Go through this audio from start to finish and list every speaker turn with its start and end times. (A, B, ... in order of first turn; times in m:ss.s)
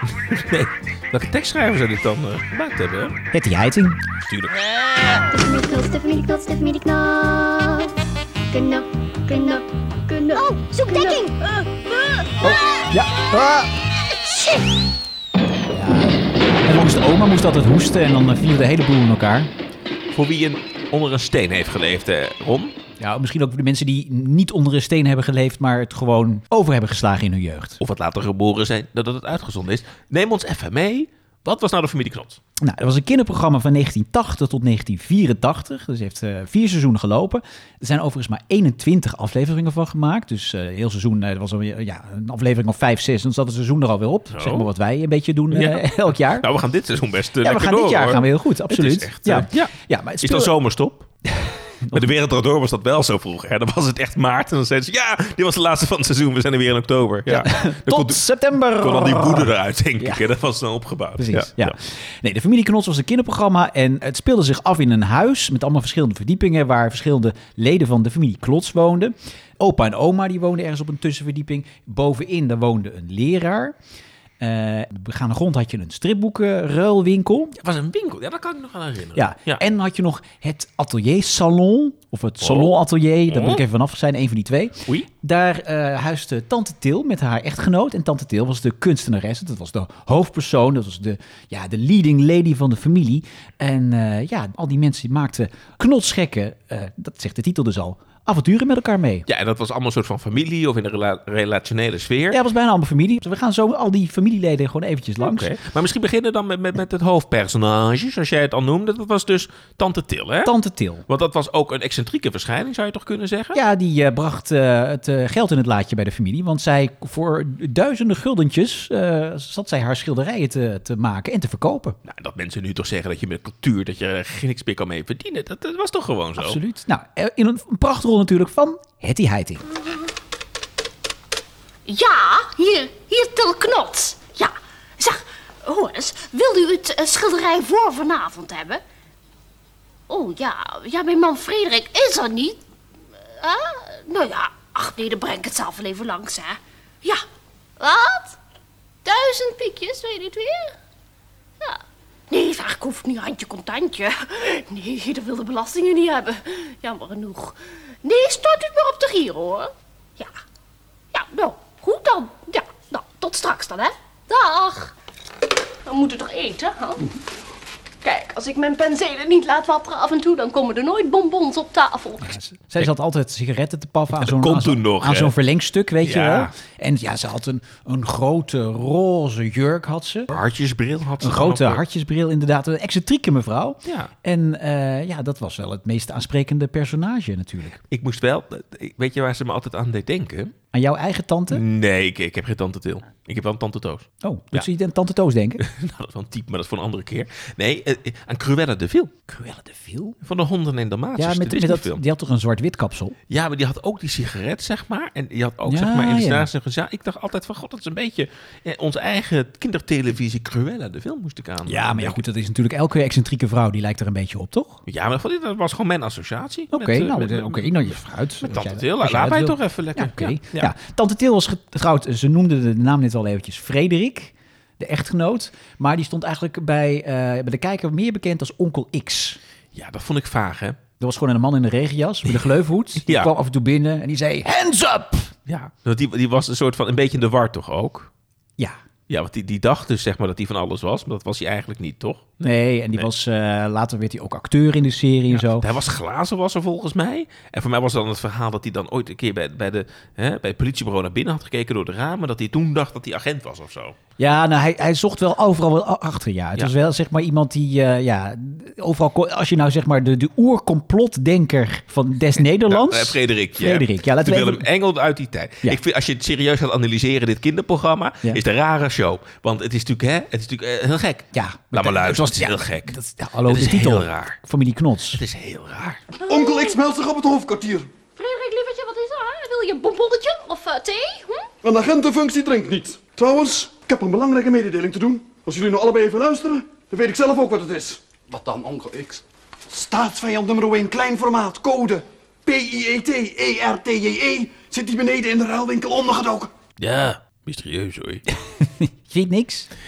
0:00.3-0:03.2 A
0:03.3-0:04.0 B
0:04.2-0:04.6 A
0:05.3-0:07.9 C
0:08.5-0:11.3 C
0:10.3-0:12.8 D
0:12.4-0:13.7 B
0:14.3-0:14.6 D
0:15.7-0:19.5 B
0:20.1-0:22.7 A
0:23.0-0:27.8 B
0:27.8-0:32.4 A
0:32.6-0:46.5 B
0:44.3-0:44.7 A
0:45.5-0:51.1 A
0:47.4-0:50.5 B
0:51.3-0:52.1 B
0:51.9-1:01.7 A
0:57.2-1:00.2 B
1:01.2-1:13.8 B
1:14.4-1:17.5 B
1:17.6-1:19.6 A
1:19.1-1:39.2 B
1:22.4-1:22.8 A
1:23.3-1:23.6 A
1:39.3-1:42.4 A
1:42.3-1:45.5 B
1:45.2-1:50.5 A
1:50.4-1:51.0 B
1:51.0-1:53.6 A
1:53.5-2:02.0 B
2:02.0-2:06.6 A
2:06.4-2:09.6 B
2:11.8-2:18.8 D
2:20.1-2:22.6 D
2:23.4-2:27.2 D
2:27.8-2:28.4 D
2:29.0-2:30.7 D
2:31.6-2:40.3 D
2:41.1-2:44.9 D
2:45.8-2:47.1 D
2:48.0-2:52.4 D
2:52.2-3:00.3 B
2:54.2-2:55.3 A
2:56.0-2:56.5 A
3:00.3-3:01.8 A
3:01.2-3:07.8 B
3:03.8-3:04.1 A
3:07.9-3:10.5 A
3:10.7-3:11.6 B
3:11.5-3:14.7 A
3:14.2-3:15.6 B
3:15.6-3:19.1 A
3:19.3-3:20.2 B
3:20.2-3:22.0 A
3:21.2-3:23.2 B
3:23.3-3:32.2 A
3:25.6-3:26.5 B
3:31.6-3:34.8 B
3:34.8-3:40.7 A
3:36.7-3:49.4 B
3:49.7-3:50.8 A
3:51.0-3:55.3 B
3:53.0-3:53.3 A
3:55.5-3:58.1 A
3:59.1-4:03.0 A
4:02.4-4:05.6 B
4:05.3-4:14.0 A
4:14.2-4:24.7 B
4:22.4-4:34.4 A
4:31.3-4:35.2 B
4:35.1-4:36.0 A
4:36.2-4:36.8 D
4:36.3-4:37.9 E
4:38.2-4:41.5 D
4:41.6-4:56.5 E
4:56.8-4:58.2 A
4:58.6-4:59.7 B